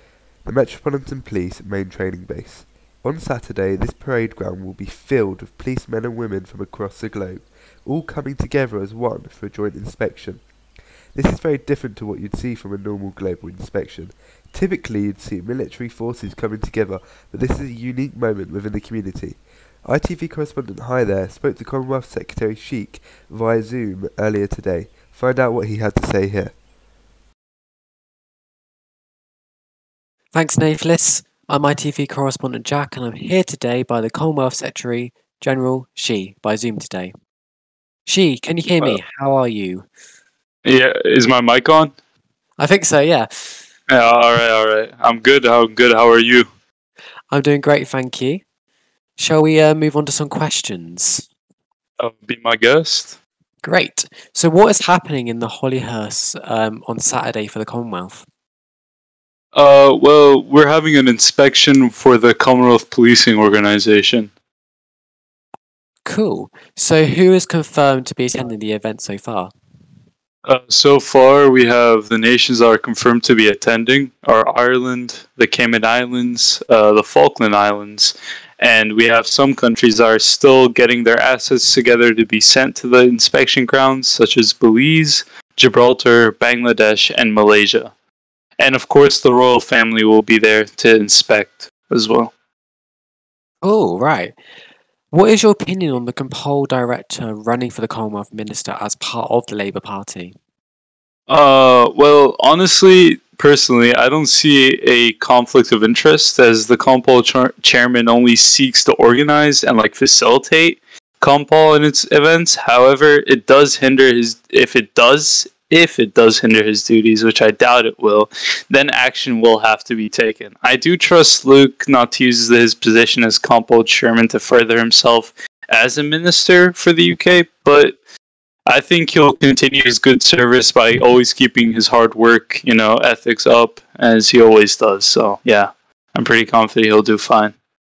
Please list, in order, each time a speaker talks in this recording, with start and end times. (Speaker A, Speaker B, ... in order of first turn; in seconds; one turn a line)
Speaker A: 0.4-10.4
Speaker A: 11.1-26.6
Speaker B: 30.3-37.1
Speaker B: 38.1-39.9
Speaker C: 40.6-41.9
Speaker B: 42.6-43.5
Speaker C: 43.9-46.5
Speaker B: 47.3-48.4
Speaker B: 49.2-51.2
Speaker C: 52.0-53.1
Speaker B: 53.6-58.3
Speaker C: 59.5-64.3
Speaker B: 66.0-69.5
Speaker C: 70.5-87.9
Speaker C: 88.6-92.3
Speaker B: 93.6-94.3
Speaker B: 95.1-100.4
Speaker C: 101.3-128.0
Speaker C: 128.7-137.5